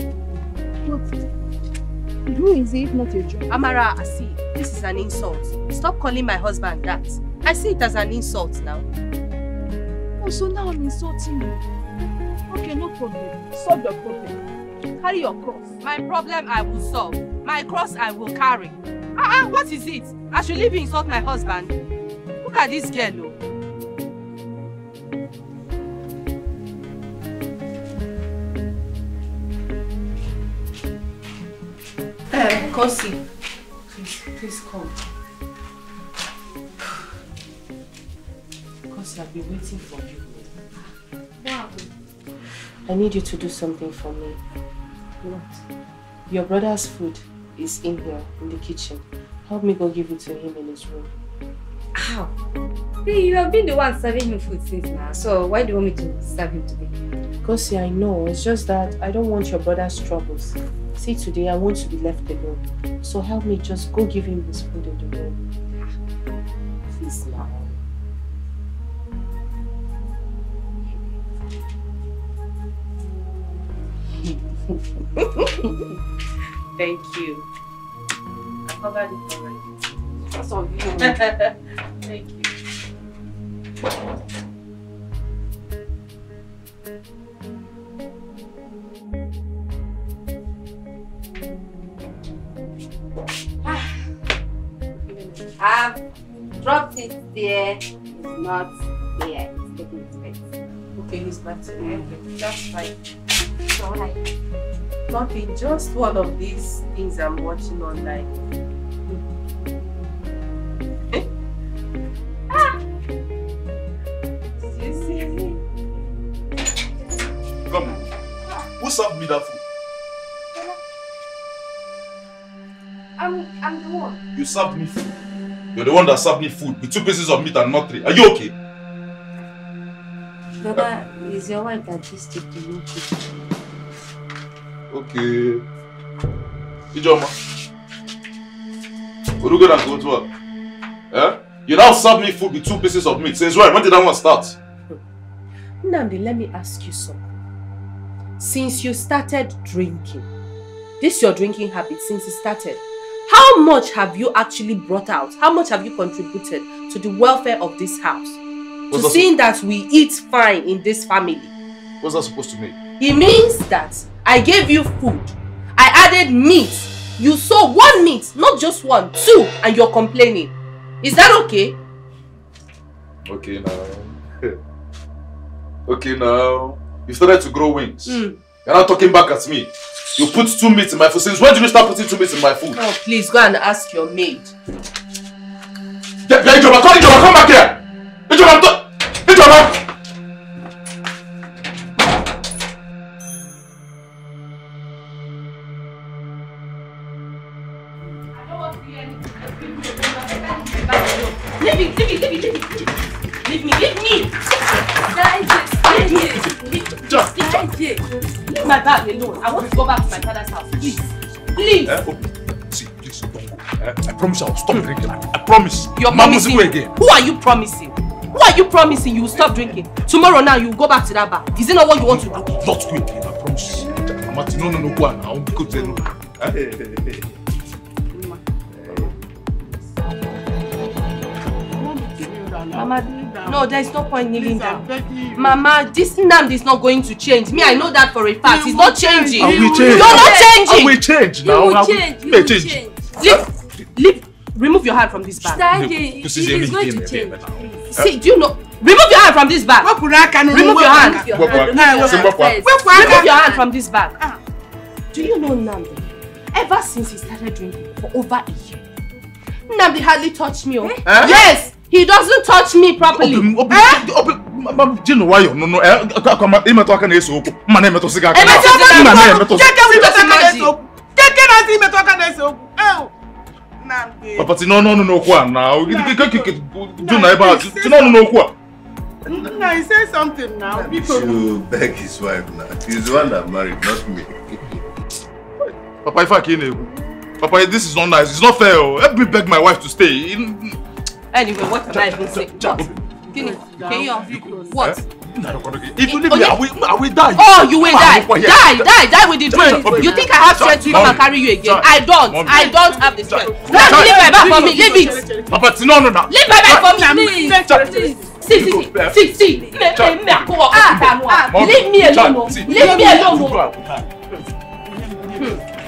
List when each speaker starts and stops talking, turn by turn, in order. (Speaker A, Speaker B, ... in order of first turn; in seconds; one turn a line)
Speaker A: 0.8-1.2
Speaker A: 2.3-3.8
Speaker B: 3.5-8.8
Speaker A: 10.2-11.6
Speaker A: 12.5-14.4
Speaker A: 15.0-15.7
Speaker B: 15.8-21.7
Speaker B: 22.4-23.4
Speaker B: 32.3-33.2
Speaker B: 33.9-35.0
Speaker B: 38.9-40.5
Speaker C: 41.4-41.9
Speaker B: 42.9-44.4
Speaker B: 45.2-45.5
Speaker B: 46.3-51.1
Speaker C: 52.0-52.3
Speaker C: 53.0-57.0
Speaker B: 57.4-65.4
Speaker B: 66.9-67.8
Speaker B: 76.8-77.5
Speaker B: 78.7-79.7
Speaker C: 80.3-81.2
Speaker B: 81.0-81.3
Speaker B: 82.0-82.5
Speaker C: 93.6-93.9
Speaker B: 95.1-95.4
Speaker C: 95.6-96.0
Speaker C: 96.6-100.4
Speaker B: 101.0-102.9
Speaker C: 101.8-102.1
Speaker C: 103.7-104.2
Speaker B: 105.1-108.5
Speaker C: 114.8-115.5
Speaker D: 117.7-118.0
Speaker D: 118.8-119.6
Speaker C: 123.2-124.2
Speaker D: 124.3-125.1
Speaker D: 125.7-128.5
Speaker C: 130.6-133.3
Speaker D: 134.9-135.7
Speaker D: 136.9-137.3
Speaker D: 139.4-140.3
Speaker D: 141.1-144.6
Speaker B: 145.8-147.3
Speaker B: 148.4-150.3
Speaker B: 151.0-158.4
Speaker D: 158.9-159.3
Speaker B: 158.9-161.5
Speaker D: 162.0-162.8
Speaker B: 163.0-171.8
Speaker D: 173.3-174.6
Speaker D: 175.9-182.8
Speaker B: 178.1-178.4
Speaker B: 182.7-184.6
Speaker D: 186.3-189.8
Speaker C: 200.2-200.8
Speaker B: 200.8-202.9
Speaker B: 203.4-204.4
Speaker C: 205.1-206.5
Speaker B: 205.8-212.0
Speaker D: 206.0-207.7
Speaker D: 211.6-216.9
Speaker B: 216.0-222.7
Speaker D: 222.0-227.3
Speaker E: 224.5-226.2
Speaker E: 228.1-228.4
Speaker E: 231.7-233.8
Speaker B: 232.7-241.0
Speaker E: 234.3-235.6
Speaker E: 237.5-237.9
Speaker E: 238.4-240.1
Speaker D: 239.4-243.5
Speaker C: 239.7-240.5
Speaker C: 241.4-243.1
Speaker B: 243.2-245.7
Speaker D: 245.4-248.1
Speaker C: 245.4-247.8
Speaker B: 247.9-249.9
Speaker E: 249.8-253.4
Speaker B: 250.5-251.3
Speaker C: 250.9-253.6
Speaker D: 251.3-253.2
Speaker B: 252.9-254.2
Speaker B: 255.1-258.8
Speaker B: 259.7-264.0
Speaker D: 261.1-261.4
Speaker D: 263.1-269.8
Speaker B: 268.3-270.7
Speaker E: 268.4-273.1
Speaker E: 273.8-274.5
Speaker D: 274.4-278.6
Speaker E: 275.9-278.3
Speaker E: 279.3-281.4
Speaker F: 280.8-284.6
Speaker D: 285.6-290.8
Speaker B: 291.3-295.0
Speaker D: 291.9-293.0
Speaker E: 293.2-294.9
Speaker D: 294.8-298.9
Speaker B: 296.1-296.6
Speaker B: 297.4-305.2
Speaker D: 299.5-304.3
Speaker C: 299.7-300.3
Speaker E: 302.5-305.6
Speaker D: 305.5-307.0
Speaker B: 306.3-307.6
Speaker E: 306.8-308.4
Speaker C: 307.0-308.2
Speaker D: 307.7-309.2
Speaker B: 308.4-313.7
Speaker D: 309.8-314.1
Speaker E: 312.7-313.2
Speaker E: 314.8-315.7